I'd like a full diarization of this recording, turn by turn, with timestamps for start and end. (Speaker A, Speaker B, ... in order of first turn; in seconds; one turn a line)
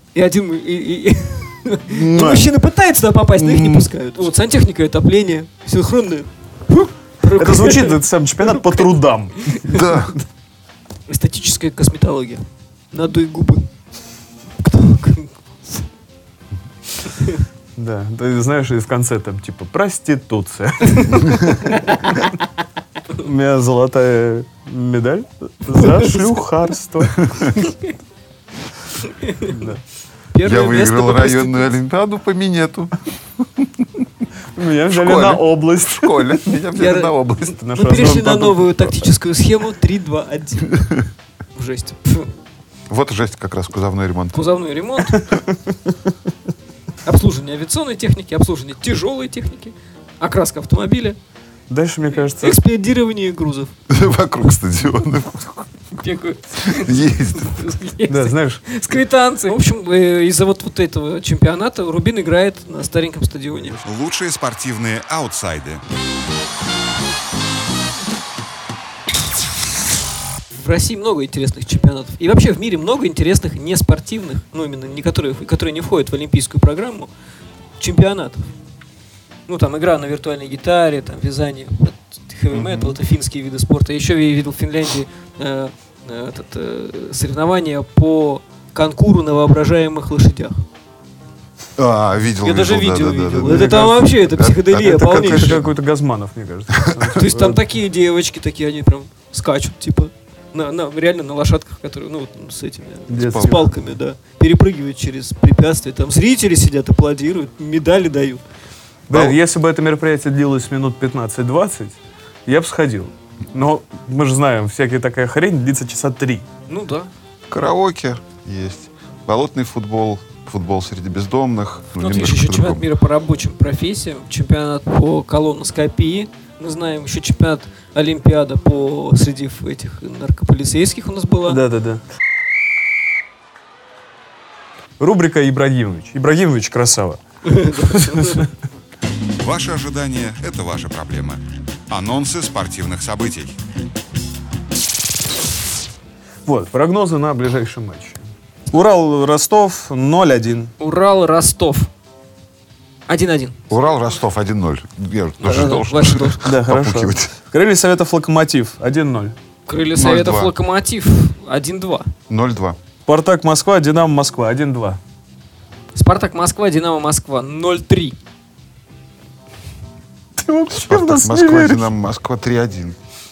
Speaker A: 0.1-8.9
Speaker B: 2.0-2.3
Speaker C: 2.0-2.5
Speaker C: 3.4-3.9
Speaker C: 7.3-9.9
Speaker A: 9.4-9.9
Speaker B: 9.7-10.2
Speaker A: 11.1-13.7
Speaker A: 14.6-15.9
Speaker A: 17.0-17.4
Speaker C: 17.8-22.2
Speaker A: 21.8-22.2
Speaker C: 23.1-27.7
Speaker A: 25.8-26.2
Speaker A: 29.2-29.6
Speaker C: 29.5-29.8
Speaker A: 30.3-31.8
Speaker B: 30.4-33.0
Speaker C: 34.5-36.4
Speaker B: 34.9-37.6
Speaker A: 36.8-37.1
Speaker C: 37.4-39.0
Speaker A: 37.7-41.0
Speaker A: 41.5-42.3
Speaker B: 42.9-44.5
Speaker A: 44.3-45.2
Speaker C: 45.1-45.9
Speaker A: 47.0-51.2
Speaker C: 51.7-52.6
Speaker A: 52.4-53.7
Speaker B: 53.9-55.7
Speaker A: 56.0-63.8
Speaker B: 56.7-57.5
Speaker C: 58.1-58.6
Speaker D: 63.8-65.8
Speaker A: 70.5-77.1
Speaker A: 77.8-78.4
Speaker A: 79.5-90.5
Speaker B: 82.5-82.9
Speaker B: 91.8-95.7
Speaker A: 92.4-95.6
Speaker C: 93.4-94.1
Speaker C: 94.7-97.6
Speaker A: 97.1-108.4
Speaker C: 103.1-103.8
Speaker B: 103.2-103.6
Speaker C: 109.1-116.5
Speaker B: 109.1-109.4
Speaker A: 116.7-117.1
Speaker B: 117.5-122.9
Speaker A: 122.0-131.6
Speaker C: 131.5-132.0
Speaker C: 135.0-138.5
Speaker A: 137.4-138.5
Speaker D: 139.4-143.6
Speaker C: 146.5-148.2
Speaker C: 148.7-150.7
Speaker A: 150.8-151.9
Speaker A: 153.1-153.6
Speaker B: 153.7-157.3
Speaker A: 155.4-156.5
Speaker C: 156.4-159.4
Speaker A: 159.7-162.1
Speaker B: 159.9-160.5
Speaker B: 162.3-162.8
Speaker C: 163.1-165.0
Speaker A: 165.9-168.2
Speaker C: 170.4-171.9
Speaker B: 170.7-173.0